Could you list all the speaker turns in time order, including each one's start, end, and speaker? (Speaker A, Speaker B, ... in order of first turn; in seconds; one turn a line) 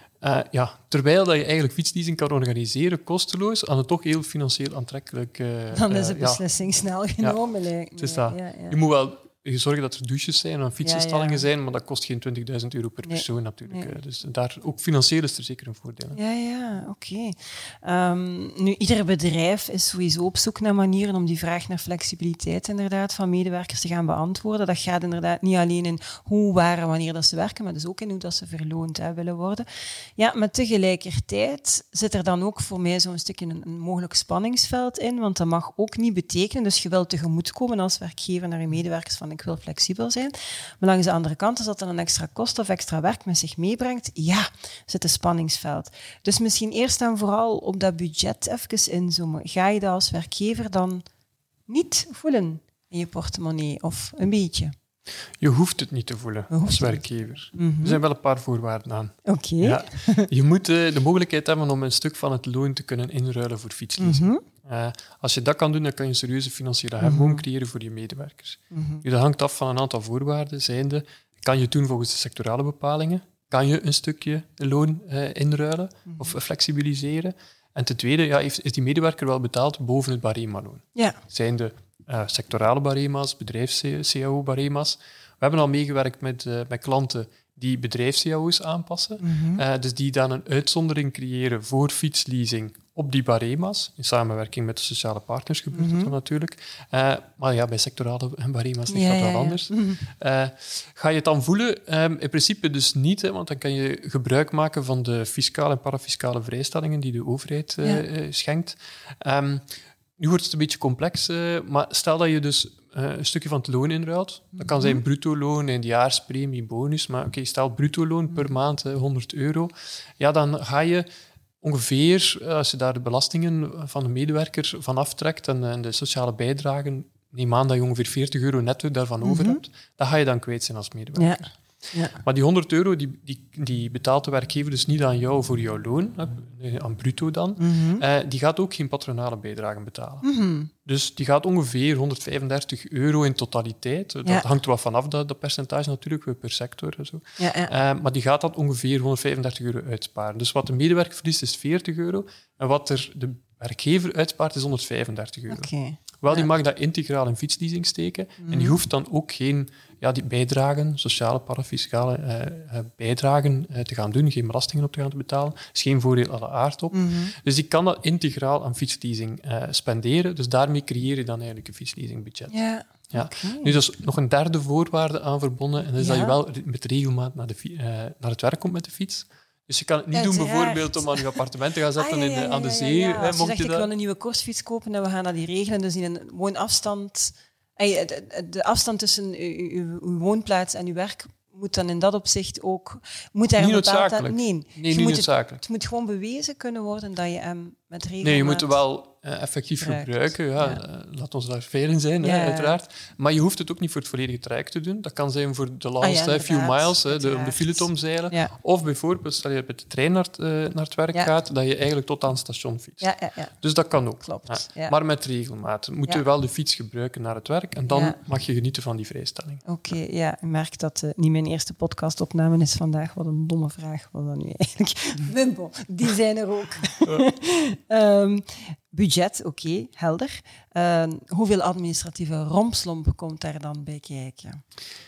Speaker A: 0.2-6.4
Speaker B: 5.7-8.8
Speaker A: 8.0-16.2
Speaker B: 10.8-11.5
Speaker B: 13.1-14.0
Speaker B: 16.1-29.7
Speaker B: 30.2-51.0
Speaker B: 51.7-54.7
Speaker A: 55.4-109.7
Speaker B: 56.5-58.0
Speaker B: 59.3-60.3
Speaker B: 64.0-64.4
Speaker B: 67.0-67.4
Speaker B: 68.7-69.0
Speaker B: 76.1-76.3
Speaker B: 89.2-89.6
Speaker B: 95.7-96.1
Speaker B: 98.9-100.0
Speaker A: 110.2-121.1
Speaker B: 114.6-115.0
Speaker A: 121.6-131.5
Speaker B: 129.2-129.6
Speaker B: 131.2-132.2
Speaker A: 132.2-140.2
Speaker B: 137.6-138.0
Speaker B: 140.2-140.7
Speaker A: 140.8-155.7
Speaker B: 147.4-147.7
Speaker B: 155.5-156.5
Speaker A: 156.2-172.5
Speaker B: 158.4-158.8
Speaker B: 166.9-167.3
Speaker B: 172.5-173.8
Speaker A: 173.1-183.9
Speaker B: 176.0-176.4
Speaker B: 180.1-181.4
Speaker B: 182.0-198.8
Speaker A: 193.6-195.6
Speaker A: 198.2-213.1
Speaker B: 199.8-200.8
Speaker B: 202.2-202.8
Speaker B: 206.0-208.5
Speaker B: 213.0-213.6
Speaker A: 213.6-219.6
Speaker B: 214.2-215.0
Speaker B: 217.9-218.2
Speaker B: 219.7-234.6